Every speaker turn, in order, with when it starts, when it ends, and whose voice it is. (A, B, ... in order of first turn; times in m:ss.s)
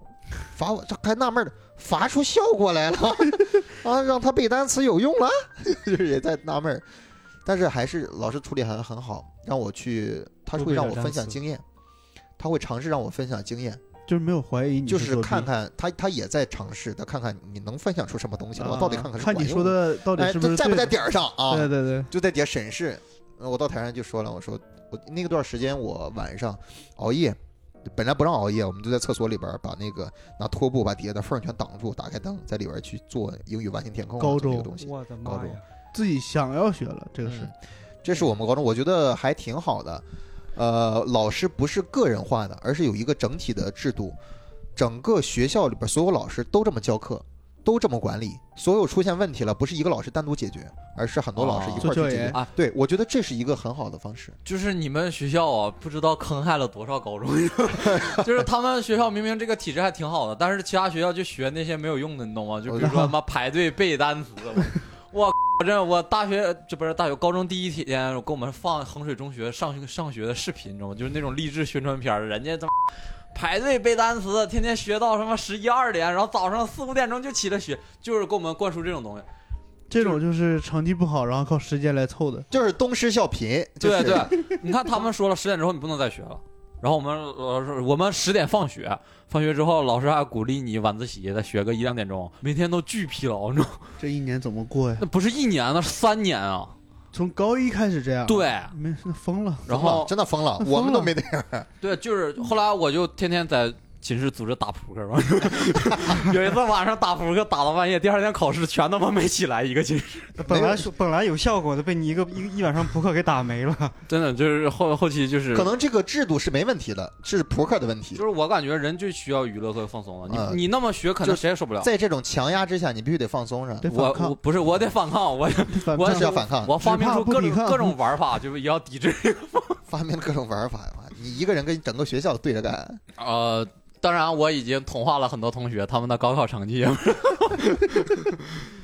0:00.5-0:06.8 A
0:07.4-0:11.6 A
0:10.6-0:11.4 B
0:12.4-0:13.8 A
0:14.1-0:15.5 B
0:14.9-0:27.4 A
0:18.6-0:21.0 B
0:21.5-0:22.1 B
0:27.9-0:35.6 A
0:34.2-0:34.7 B
0:34.8-0:35.6 C
0:35.9-0:37.5 B
0:37.2-0:40.0 A
0:40.6-0:44.2 A
0:44.8-0:54.4 A
0:51.4-0:52.5 D
0:51.8-0:52.4 B
0:54.4-1:19.3 D
0:57.8-0:58.3 A
1:02.7-1:03.0 A
1:02.8-1:03.1 B
1:19.9-1:22.5 B
1:20.0-1:20.2 D
1:22.5-1:24.4 A
1:23.8-1:33.9 D
1:34.0-1:35.0 B
1:35.0-1:36.7 D
1:37.1-1:39.7 B
1:38.3-1:38.7 D
1:39.7-1:40.1 D
1:39.7-1:41.7 A
1:40.6-1:41.1 B
1:41.8-1:50.4 D
1:50.4-1:54.0 C
1:50.4-1:50.9 A
1:54.1-1:55.7 D
1:55.5-1:58.2 A
1:58.2-2:01.9 D
2:00.3-2:00.6 A
2:01.2-2:03.9 A
2:03.8-2:04.4 B
2:03.9-2:09.8 D
2:05.7-2:08.0 B
2:06.1-2:06.8 A
2:09.9-2:13.0 A
2:13.2-2:18.4 D